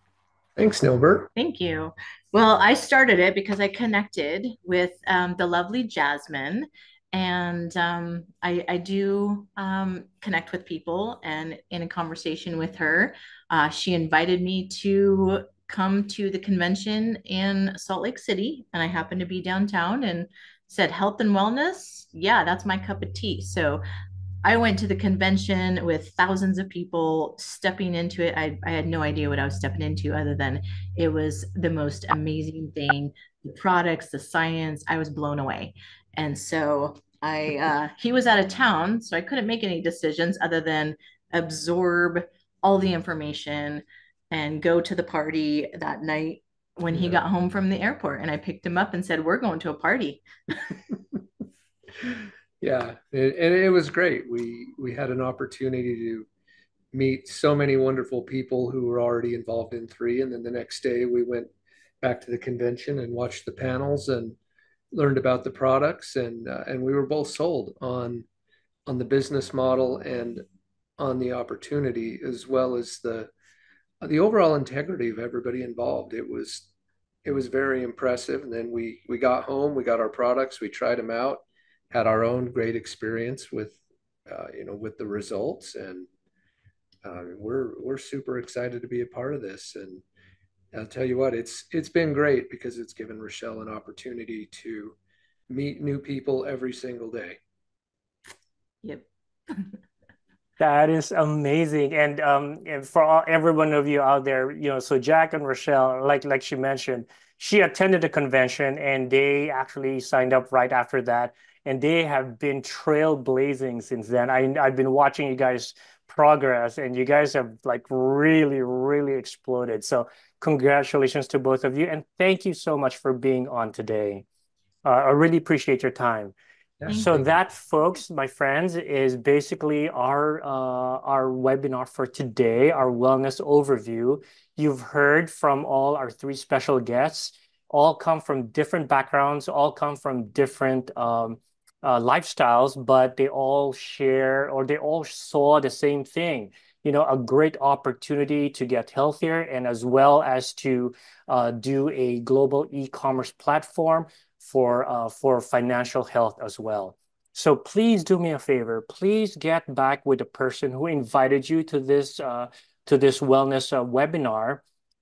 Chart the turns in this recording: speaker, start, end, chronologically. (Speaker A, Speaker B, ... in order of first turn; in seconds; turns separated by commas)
Speaker A: 0.6-1.3, Speaker B: 1.4-23.8, Speaker B: 24.4-50.2, Speaker A: 46.9-47.2, Speaker A: 52.6-56.3, Speaker A: 56.9-64.4, Speaker A: 64.9-68.2, Speaker A: 68.8-70.4, Speaker A: 71.0-73.3, Speaker A: 74.0-76.7, Speaker A: 77.2-86.1, Speaker A: 87.0-90.0, Speaker A: 90.7-95.0, Speaker A: 95.5-97.4, Speaker B: 98.8-99.7, Speaker C: 100.6-124.2, Speaker C: 124.8-126.3, Speaker A: 126.8-127.2, Speaker C: 126.9-164.6